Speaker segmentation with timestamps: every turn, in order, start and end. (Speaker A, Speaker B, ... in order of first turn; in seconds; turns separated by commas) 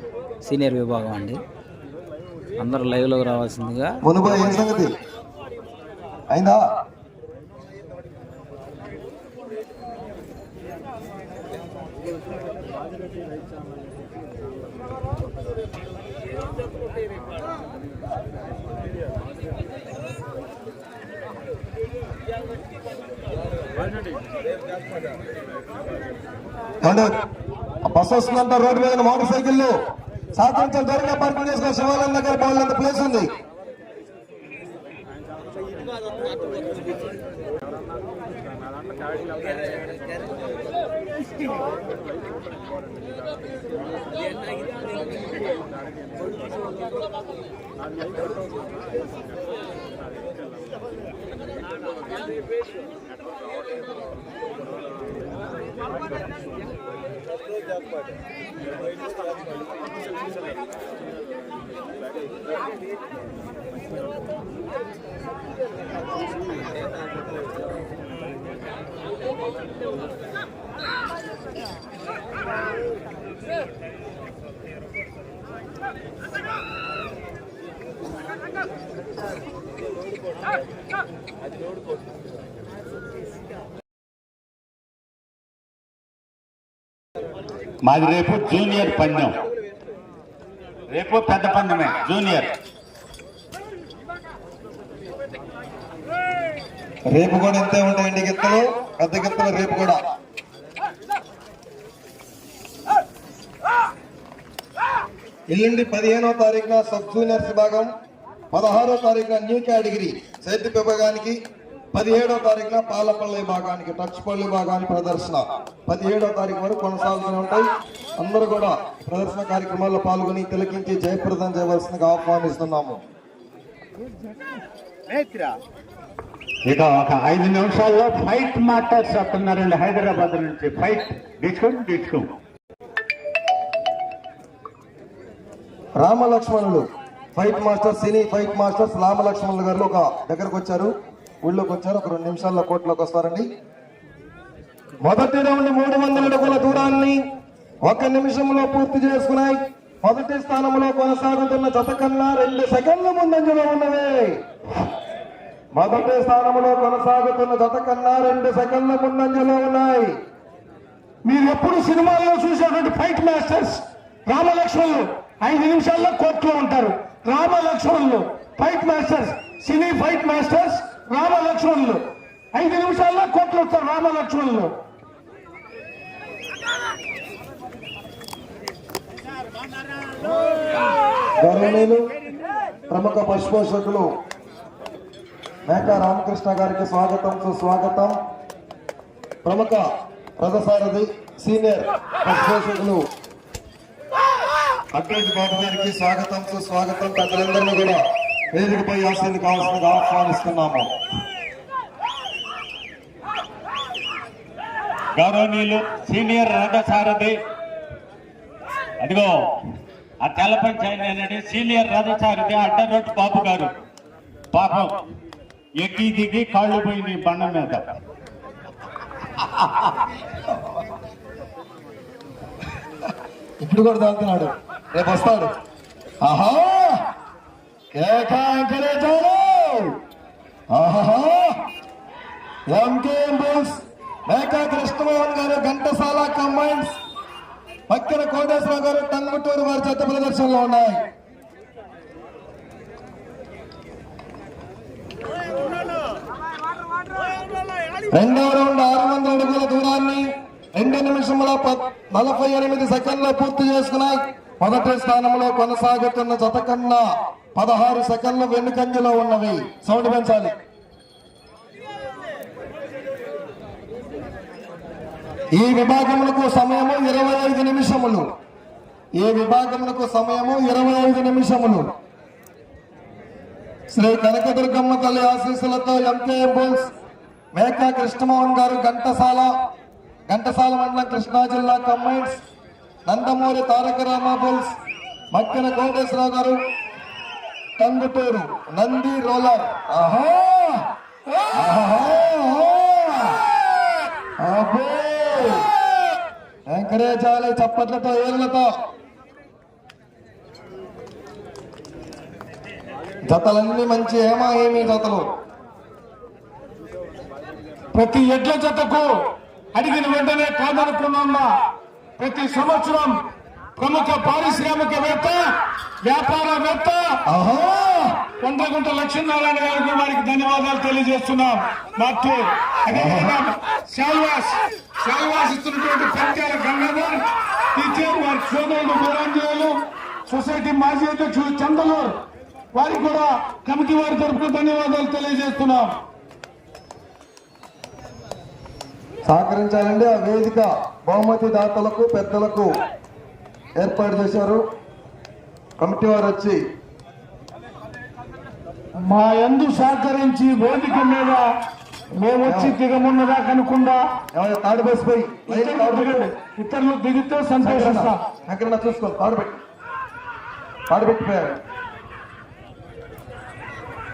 Speaker A: 0.4-1.4, Speaker A: 2.6-4.0, Speaker B: 4.0-4.9, Speaker B: 6.3-6.6, Speaker B: 26.8-27.1, Speaker B: 27.8-29.8, Speaker B: 30.3-33.3, Speaker C: 87.8-89.3, Speaker C: 90.9-92.5, Speaker B: 97.1-100.0, Speaker B: 105.5-107.9, Speaker B: 108.5-111.4, Speaker B: 111.9-123.0, Speaker C: 126.7-132.3, Speaker B: 136.0-143.5, Speaker B: 145.0-147.2, Speaker B: 147.8-154.4, Speaker B: 155.7-160.2, Speaker D: 161.2-174.7, Speaker B: 181.4-182.0, Speaker B: 182.9-184.1, Speaker B: 185.7-188.2, Speaker B: 189.4-193.0, Speaker B: 194.9-198.0, Speaker B: 198.5-200.9, Speaker C: 205.2-207.3, Speaker C: 209.0-209.4, Speaker C: 210.2-213.7, Speaker C: 214.5-214.9, Speaker C: 215.8-217.8, Speaker C: 219.4-219.9, Speaker B: 223.6-225.5, Speaker B: 226.2-227.0, Speaker B: 227.9-229.9, Speaker B: 230.7-231.6, Speaker B: 232.7-236.9, Speaker B: 237.9-241.0, Speaker B: 248.1-260.5, Speaker B: 265.5-268.2, Speaker B: 269.1-271.9, Speaker B: 273.9-276.9, Speaker B: 277.5-279.5, Speaker B: 280.3-282.4, Speaker B: 283.1-284.7, Speaker B: 285.3-286.6, Speaker B: 287.8-290.9, Speaker B: 291.5-293.5, Speaker B: 294.4-295.7, Speaker B: 296.7-298.8, Speaker B: 303.2-305.2, Speaker D: 307.9-309.1, Speaker D: 309.7-311.5, Speaker D: 312.2-313.2, Speaker D: 313.8-315.4, Speaker D: 316.0-317.2, Speaker B: 317.3-318.2, Speaker D: 318.4-327.2, Speaker B: 322.9-323.4, Speaker D: 327.7-329.8, Speaker D: 330.3-332.1, Speaker D: 332.7-335.9, Speaker B: 339.2-342.7, Speaker B: 343.8-344.6, Speaker B: 345.8-346.6, Speaker D: 349.0-351.4, Speaker D: 352.2-354.0, Speaker B: 352.4-352.8, Speaker B: 354.3-356.3, Speaker D: 355.5-358.2, Speaker B: 357.6-359.6, Speaker B: 360.9-361.6